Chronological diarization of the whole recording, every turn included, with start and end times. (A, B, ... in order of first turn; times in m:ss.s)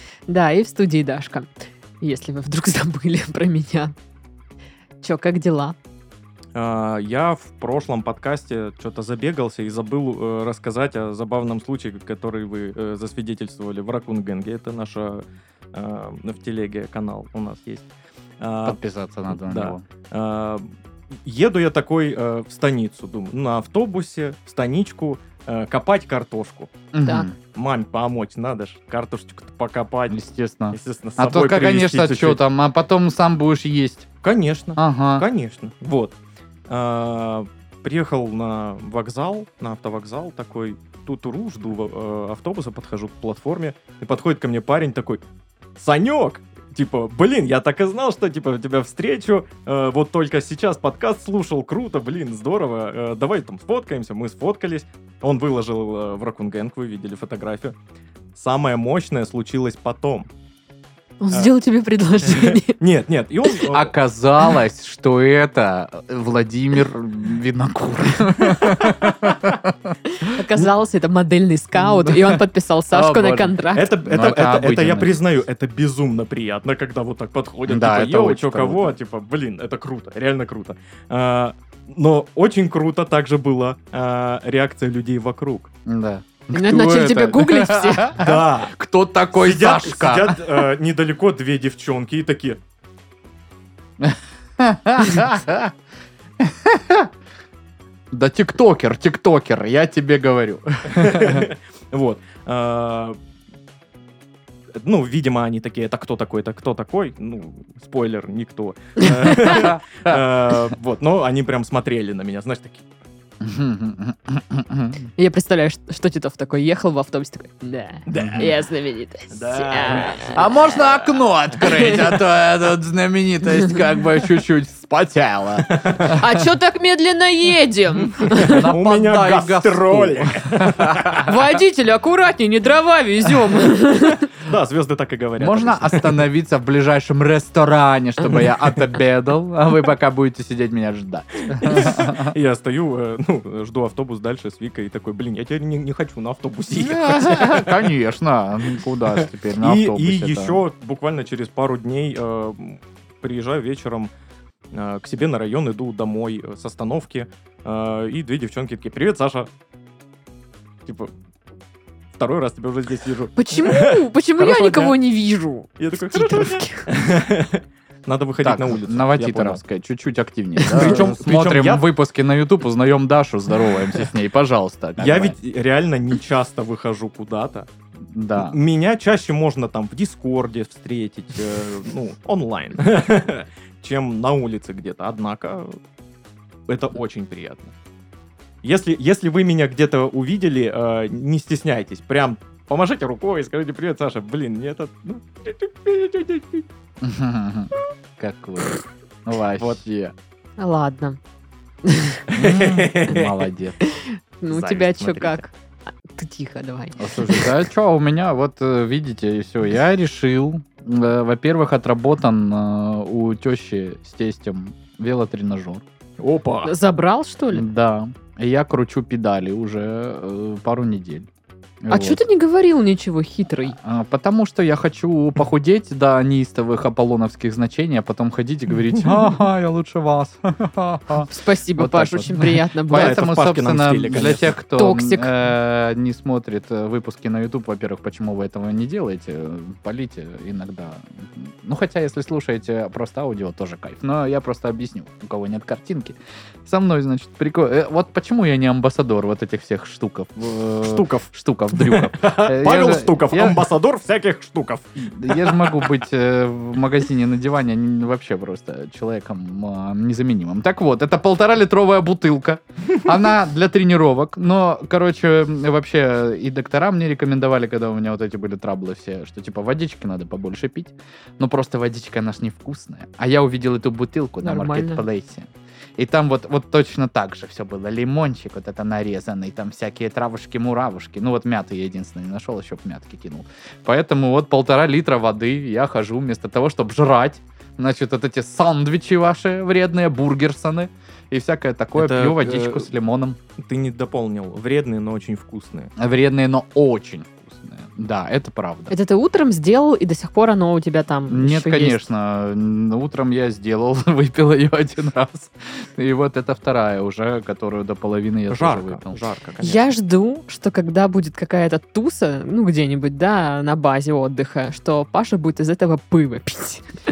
0:00.3-0:04.0 A
0:05.0-0:05.8 A
0:06.6-0:17.9 B
0:18.4-0:20.7 B
0:18.6-0:19.8 C
0:21.2-0:26.7 B
0:26.9-0:27.4 C
0:27.5-0:30.2 B
0:30.1-0:34.1 C
0:30.7-0:32.4 B
0:34.2-0:36.2 B
0:34.8-0:35.3 C
0:36.7-0:45.2 B
0:45.8-0:57.8 B
0:58.4-1:00.3 B
1:01.2-1:02.8 A
1:02.2-1:03.9 B
1:03.7-1:10.7 C
1:08.5-1:09.1 B
1:10.1-1:13.9 A
1:11.8-1:15.2 C
1:13.7-1:25.7 B
1:17.7-1:19.0 C
1:25.9-1:30.7 C
1:26.5-1:28.2 A
1:28.2-1:28.7 B
1:29.3-1:32.6 B
1:34.0-1:35.7 C
1:36.4-1:37.1 C
1:38.1-1:41.5 C
1:40.9-1:43.2 B
1:44.8-1:52.9 B
1:49.5-1:50.2 C
1:53.4-1:55.1 C
1:55.2-2:00.7 A
1:58.1-1:58.5 B
1:58.2-1:58.5 C
1:59.3-2:00.4 B
2:00.3-2:06.3 C
2:01.6-2:02.0 A
2:05.6-2:06.2 B
2:06.1-2:08.7 A
2:08.2-2:11.4 B
2:08.4-2:11.3 C
2:11.2-2:14.3 A
2:14.3-2:16.3 B
2:15.4-2:22.4 C
2:18.3-2:18.8 B
2:21.5-2:27.9 B
2:26.7-2:30.6 C
2:29.1-2:34.1 B
2:34.7-2:39.5 B
2:40.9-2:41.1 B
2:42.2-2:45.0 B
2:43.4-2:46.9 A
2:45.8-2:49.6 B
2:48.4-2:55.4 C
2:50.6-2:51.0 A
2:50.7-2:51.9 B
2:55.0-2:57.7 B
2:58.1-2:58.6 C
2:58.4-3:05.8 B
3:06.7-3:07.7 B
3:08.6-3:16.7 B
3:17.0-3:20.1 C
3:20.6-3:21.2 A
3:21.8-3:22.3 A
3:22.3-3:23.4 B
3:22.4-3:23.8 C
3:23.8-3:25.5 A
3:24.5-3:25.4 B
3:26.1-3:27.5 A
3:27.0-3:35.8 C
3:36.2-3:36.7 B
3:36.6-3:37.7 A
3:37.5-3:41.3 C
3:41.8-3:42.2 C
3:41.9-3:43.8 A
3:43.8-4:13.7 C
3:51.3-3:53.2 A
3:52.9-3:54.6 B
3:54.8-3:55.3 A
4:10.8-4:16.0 B
4:15.0-4:53.4 C
4:34.4-4:35.0 A
4:52.0-4:52.9 B
4:53.6-4:55.9 B
4:56.0-4:59.0 C
4:58.9-5:02.0 A
5:01.3-5:09.2 C
5:08.5-5:09.9 B
5:09.6-5:16.9 A